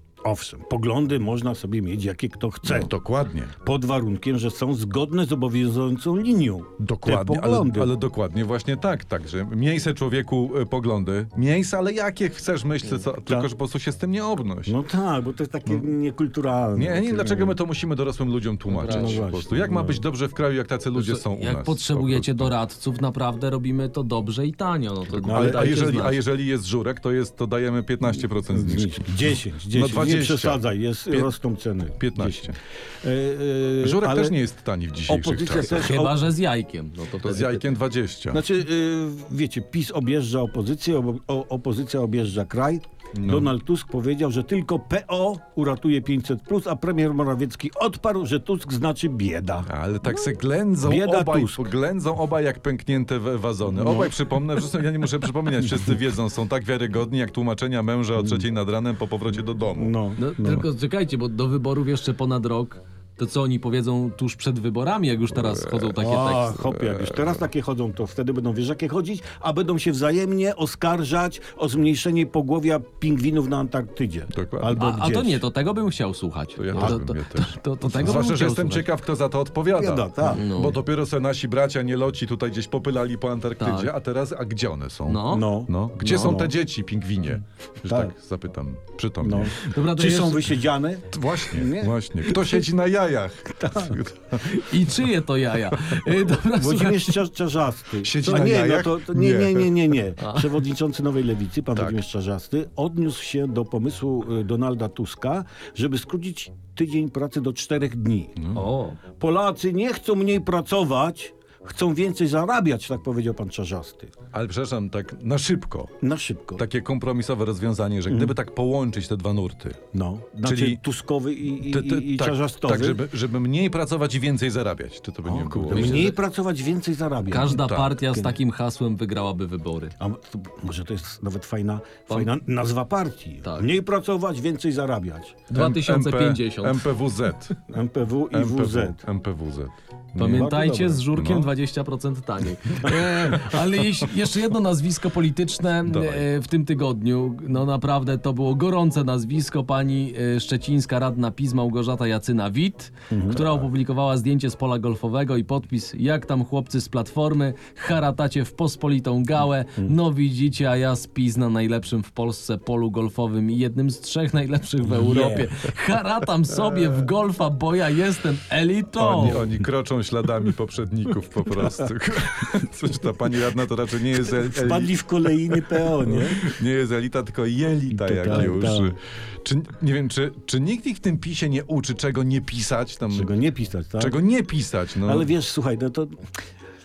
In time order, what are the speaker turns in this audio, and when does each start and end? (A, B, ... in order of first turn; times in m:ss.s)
0:00.2-0:02.9 A
0:02.6-0:03.5 B
0:03.6-0:07.9 A
0:06.8-0:14.8 B
0:14.7-0:17.6 A
0:16.7-0:22.5 B
0:18.7-0:19.3 C
0:18.8-0:20.0 A
0:20.9-0:26.2 C
0:25.1-0:25.9 A
0:25.2-0:31.3 B
0:28.5-0:34.4 A
0:32.0-0:32.5 B
0:33.8-0:35.9 B
0:35.1-0:36.2 A
0:35.7-0:37.7 C
0:37.2-0:38.4 B
0:38.3-0:49.7 A
0:43.1-0:43.5 B
0:49.6-1:00.6 B
0:50.8-0:51.7 A
0:53.7-0:54.1 A
0:55.6-0:56.0 A
0:58.2-0:58.4 A
0:59.7-1:00.6 A
1:00.2-1:06.6 C
1:05.3-1:06.0 B
1:05.9-1:15.4 A
1:06.6-1:07.4 B
1:14.3-1:14.8 B
1:14.7-1:18.8 C
1:16.6-1:29.6 B
1:19.7-1:20.4 A
1:20.3-1:20.8 C
1:23.6-1:23.9 C
1:25.1-1:26.4 C
1:25.3-1:26.5 A
1:27.8-1:28.1 A
1:29.2-1:32.6 A
1:29.6-1:30.5 C
1:31.1-1:34.9 B
1:33.6-1:34.0 A
1:34.4-1:37.2 C
1:35.7-1:36.0 B
1:36.5-1:48.4 A
1:38.0-1:40.0 B
1:40.2-1:40.5 C
1:48.4-1:48.6 B
1:48.5-1:49.0 C
1:49.2-1:54.1 A
1:54.3-1:56.0 B
1:56.0-1:56.6 A
1:56.6-1:59.8 B
1:58.1-1:58.3 A
1:59.9-2:03.0 A
2:00.4-2:00.8 B
2:01.6-2:06.1 B
2:05.2-2:07.6 A
2:05.7-2:06.2 C
2:07.3-2:09.9 C
2:07.4-2:08.0 B
2:10.0-2:15.4 A
2:13.4-2:13.7 C
2:15.5-2:16.8 C
2:15.5-2:17.6 B
2:17.7-2:19.0 A
2:18.3-2:20.5 B
2:20.2-2:49.4 C
2:20.2-2:21.0 A
2:21.1-2:21.5 B
2:22.8-2:23.3 A
2:23.2-2:23.6 B
2:25.8-2:26.2 B
2:33.1-2:33.4 A
2:44.8-2:45.5 A
2:49.0-3:03.3 B
2:49.2-2:49.5 A
2:54.2-2:56.6 A
2:57.9-2:58.9 A
3:03.1-3:04.2 A
3:04.0-3:05.3 B
3:05.0-3:06.3 A